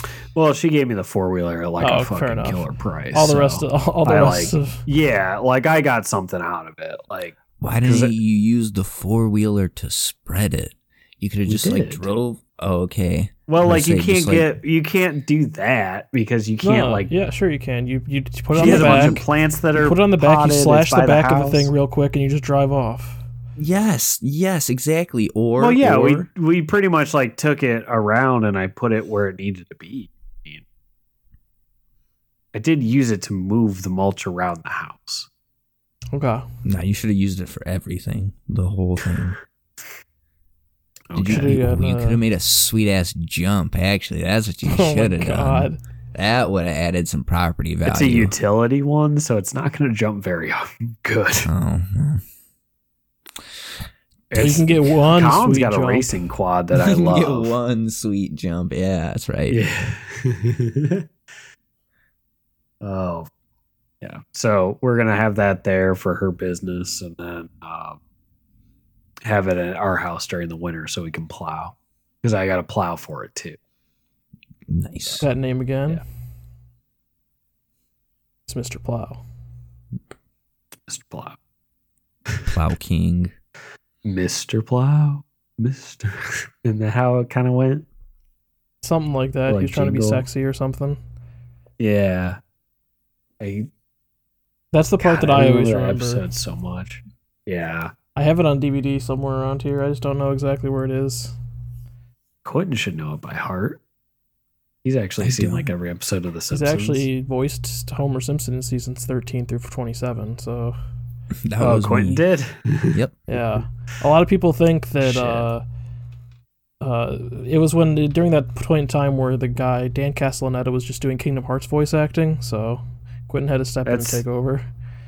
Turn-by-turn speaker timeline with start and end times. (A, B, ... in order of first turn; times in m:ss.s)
0:00.3-0:08.1 A
0:01.8-0:04.8 B
0:07.6-0:14.5 C
0:11.4-0:12.1 A
0:13.5-0:17.1 A
0:16.6-0:23.2 B
0:18.5-0:19.2 C
0:18.6-0:21.7 A
0:23.6-0:26.3 C
0:25.6-0:30.6 A
0:32.5-0:35.3 A
0:36.1-0:36.5 B
0:36.6-0:39.4 C
0:41.1-0:41.6 A
0:41.1-0:48.3 C
0:41.3-0:42.2 B
0:44.6-0:45.8 B
0:47.8-0:51.5 A
0:51.4-0:52.2 C
0:54.3-0:57.5 A
0:54.3-0:56.1 B
0:56.7-0:59.6 C
0:59.5-1:01.0 A
1:02.8-1:03.3 A
1:04.0-1:08.0 A
1:09.2-1:13.6 A
1:14.7-1:15.3 C
1:15.2-1:16.0 B
1:18.5-1:19.2 B
1:20.9-1:21.4 A
1:22.5-1:23.3 C
1:24.0-1:27.8 A
1:28.8-1:31.0 B
1:29.5-1:30.2 A
1:31.8-1:32.4 A
1:33.4-1:33.7 A
1:34.7-1:36.2 B
1:35.0-1:37.9 A
1:38.2-1:41.4 B
1:42.4-1:43.8 A
1:44.8-1:47.0 A
1:45.2-1:45.7 C
1:46.5-1:50.8 B
1:51.4-1:52.2 C
1:51.6-1:53.6 A
1:52.9-1:53.2 C
1:53.3-1:55.6 B
1:55.0-1:55.5 A
1:56.8-2:04.7 B
2:03.8-2:04.2 A